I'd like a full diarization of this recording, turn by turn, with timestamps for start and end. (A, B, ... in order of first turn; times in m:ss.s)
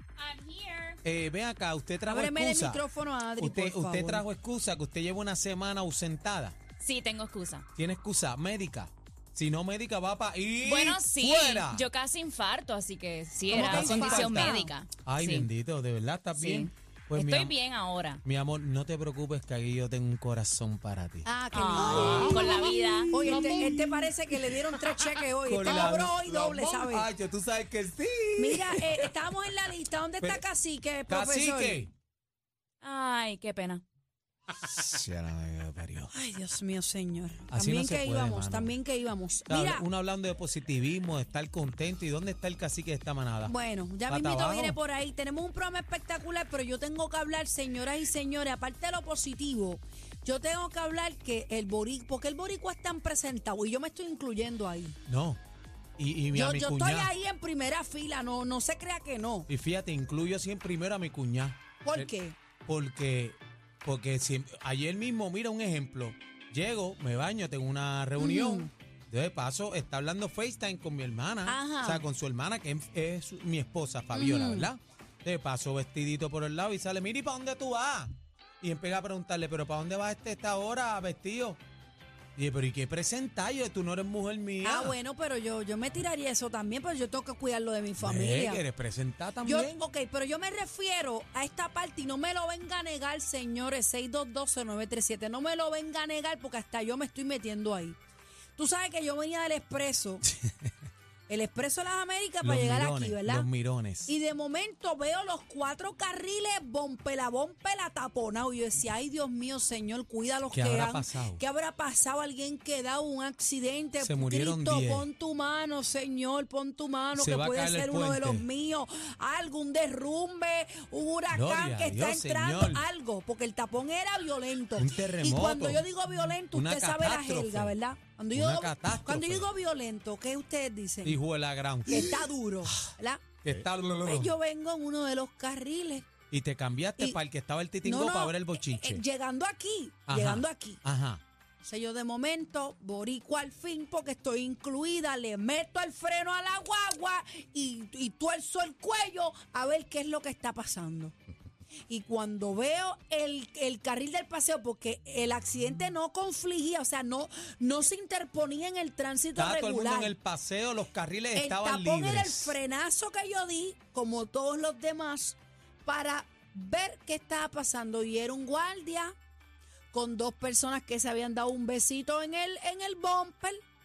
0:00.2-0:01.0 A
0:01.0-0:02.8 B
0:02.1-0:04.2 C
0:03.4-0:06.6 B
0:06.8-0:07.7 A
0:07.8-0:11.9 B
0:10.6-0:15.5 A
0:13.5-0:14.7 C
0:13.5-0:17.6 B
0:16.4-0:18.2 A
0:18.2-0:24.1 B
0:21.2-0:27.1 C
0:21.5-0:23.3 A
0:24.8-0:29.5 B
0:28.4-0:31.8 C
0:31.1-0:31.9 B
0:32.8-0:33.8 A
0:34.5-0:36.1 B
0:36.1-0:39.8 C
0:37.5-0:38.7 B
0:39.5-0:43.6 B
0:43.5-0:55.0 C
0:44.1-0:44.8 B
0:55.1-0:55.4 B
0:56.0-0:57.1 B
0:56.3-0:59.5 C
0:59.5-1:02.1 B
1:01.8-1:02.4 C
1:02.7-1:21.6 B
1:08.2-1:08.7 C
1:11.5-1:12.0 C
1:14.1-1:14.7 C
1:22.4-1:25.0 B
1:24.6-1:28.6 C
1:28.0-1:29.8 B
1:29.4-1:38.0 C
1:38.6-1:40.2 C
1:40.3-1:40.7 B
1:41.3-1:43.5 C
1:42.4-1:44.1 B
1:44.1-2:11.2 C
1:50.5-1:51.4 B
1:54.0-1:55.1 B
1:57.1-1:58.5 B
2:01.3-2:02.9 B
2:04.8-2:05.9 B
2:06.5-2:07.8 B
2:08.3-2:09.5 B
2:11.0-2:12.9 B
2:11.9-2:13.2 C
2:13.4-2:14.4 B
2:14.0-2:16.1 C
2:16.3-2:19.0 B
2:17.8-2:20.8 C
2:20.1-2:21.2 B
2:21.6-2:31.2 C
2:31.9-2:40.1 C
2:39.4-2:42.6 B
2:41.4-2:49.2 C
2:49.9-2:53.6 C